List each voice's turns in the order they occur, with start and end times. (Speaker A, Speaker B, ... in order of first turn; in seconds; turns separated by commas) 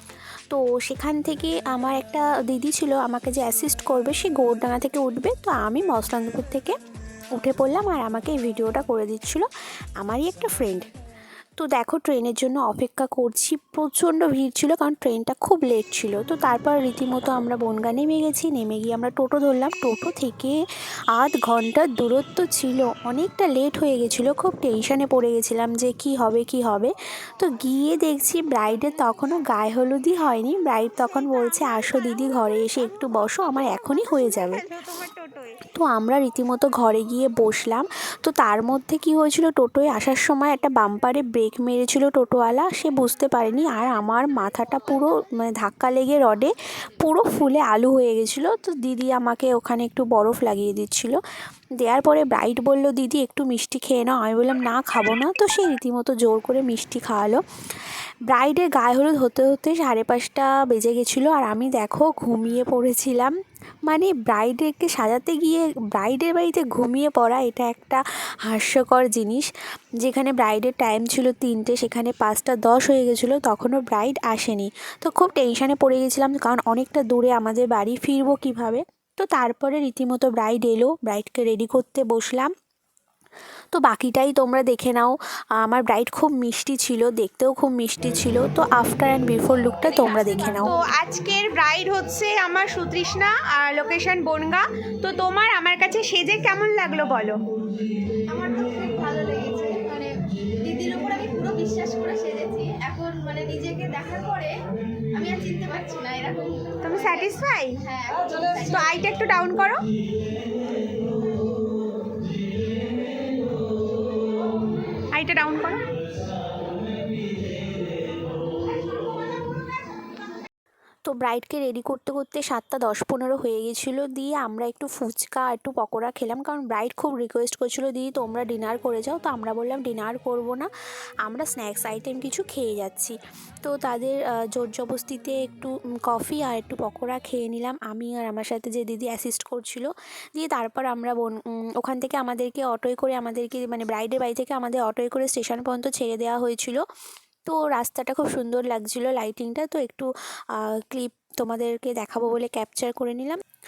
Speaker A: 0.5-6.7, Speaker A: 7.4-9.5, Speaker A: 10.0-10.9, Speaker A: 11.6-20.6, Speaker A: 21.1-34.6, Speaker B: 31.1-32.6, Speaker B: 33.8-35.6, Speaker A: 35.8-51.2, Speaker A: 51.8-57.4, Speaker A: 58.3-63.3, Speaker A: 63.9-69.5, Speaker A: 70.0-82.5, Speaker A: 83.7-90.7, Speaker C: 89.8-90.8, Speaker B: 90.7-97.4, Speaker C: 98.3-100.1, Speaker C: 100.6-104.5, Speaker C: 105.1-109.2, Speaker B: 106.8-107.8, Speaker B: 108.7-109.9, Speaker B: 115.1-115.8, Speaker A: 121.1-130.7, Speaker A: 131.2-146.8, Speaker A: 147.5-153.4